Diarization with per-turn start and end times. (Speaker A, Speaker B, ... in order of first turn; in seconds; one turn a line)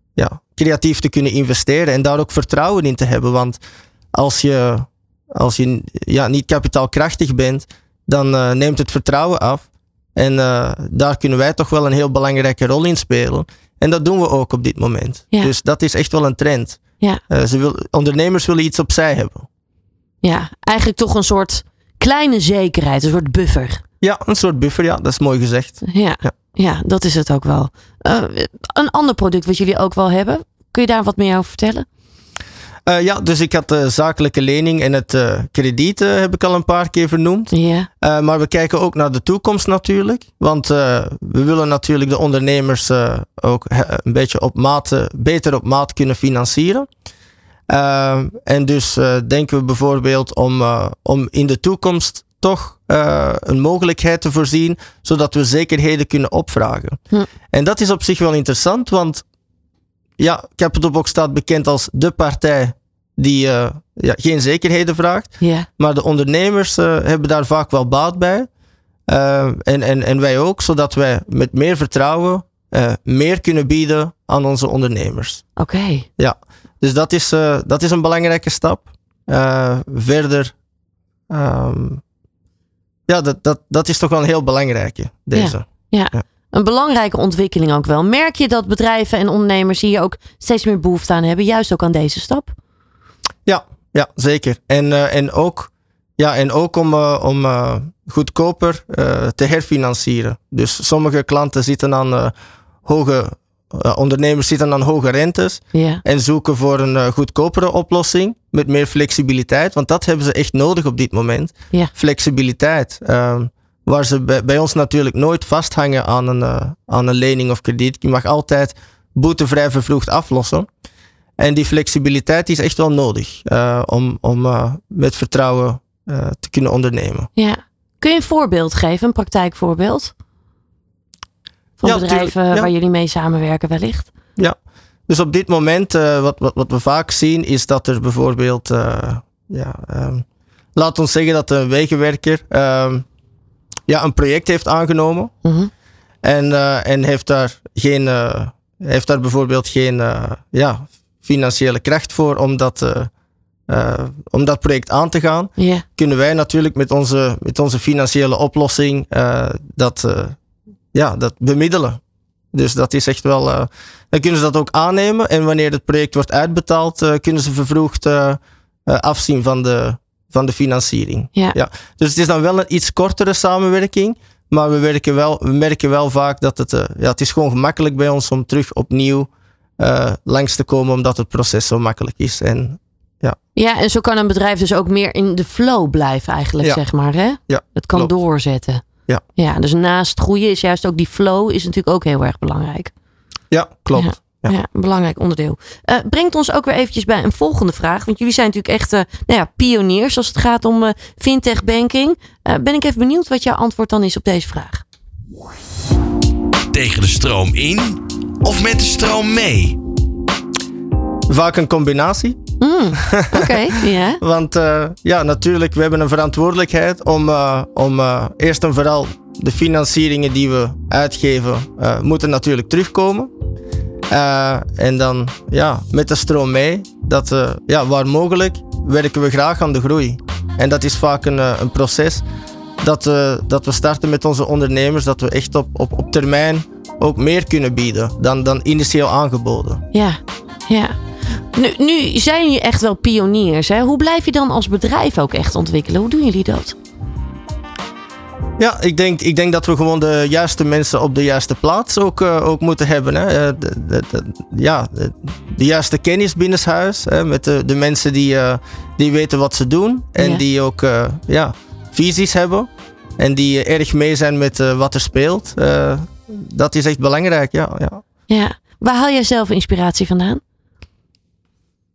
Speaker A: 0.2-3.6
Speaker A: 4.1-19.5
Speaker B: 20.2-23.8
Speaker A: 24.0-26.3
Speaker B: 25.9-31.9
Speaker A: 32.9-46.9
Speaker B: 37.5-37.9
Speaker A: 47.7-57.0
Speaker A: 57.5-59.2
Speaker A: 60.2-68.5
Speaker B: 65.4-65.7
Speaker A: 69.1-75.5
Speaker B: 75.6-76.1
Speaker A: 76.2-80.5
Speaker A: 81.3-82.0
Speaker A: 83.1-86.2
Speaker B: 85.3-92.5
Speaker A: 93.5-102.3
Speaker A: 102.8-120.7
Speaker B: 105.7-106.0
Speaker A: 121.4-127.3
Speaker B: 127.4-130.1
Speaker B: 131.8-134.1
Speaker A: 131.8-132.7
Speaker A: 135.1-143.1
Speaker A: 143.9-145.3
Speaker B: 145.4-145.7
Speaker A: 146.2-153.1
Speaker A: 153.7-160.4
Speaker B: 155.6-155.8
Speaker A: 160.9-162.0
Speaker A: 162.5-183.4
Speaker B: 183.6-188.8
Speaker A: 187.5-188.1
Speaker B: 189.4-192.9
Speaker A: 193.5-194.6
Speaker B: 193.9-204.8
Speaker C: 206.7-209.8
Speaker A: 211.3-212.4
Speaker B: 212.6-214.2
Speaker A: 212.9-223.3
Speaker A: 224.1-232.2
Speaker A: 232.8-239.8
Speaker B: 239.9-241.0
Speaker B: 241.5-246.8
Speaker A: 248.6-268.0
Speaker B: 268.3-270.4